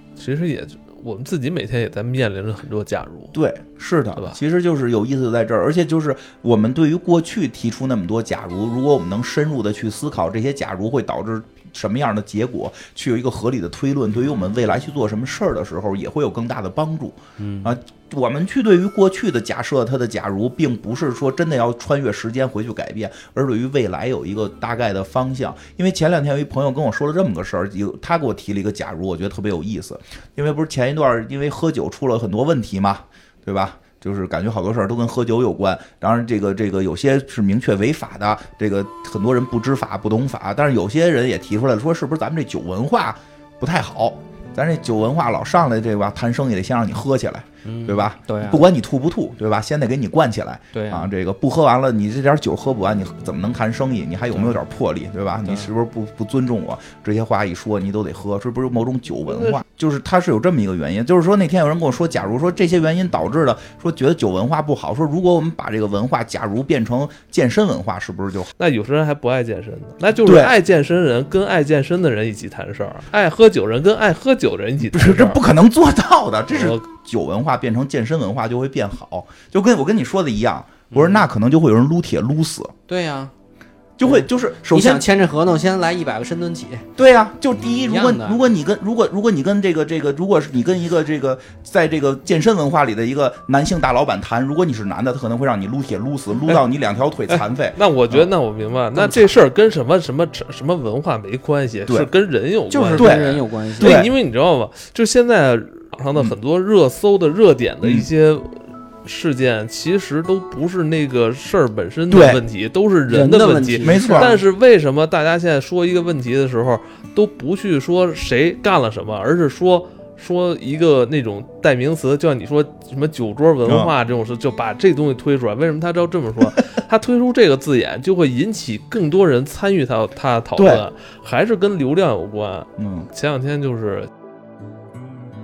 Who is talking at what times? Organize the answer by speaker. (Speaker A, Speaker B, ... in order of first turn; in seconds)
Speaker A: 0.1-3.4, 59.2-59.6, 68.6-75.4, 76.5-76.8, 97.3-134.1
Speaker B: 3.3-68.5, 70.2-70.5, 74.9-82.7, 84.0-85.0, 87.0-98.2, 103.0-104.1, 107.8-108.1, 112.1-112.4, 113.8-114.4, 123.7-123.9, 130.6-130.8, 132.8-133.1
Speaker C: 17.4-17.7, 47.6-48.6, 50.7-51.1, 80.9-81.2, 82.9-83.3, 84.0-86.9, 87.7-88.4, 102.7-104.1, 113.1-114.4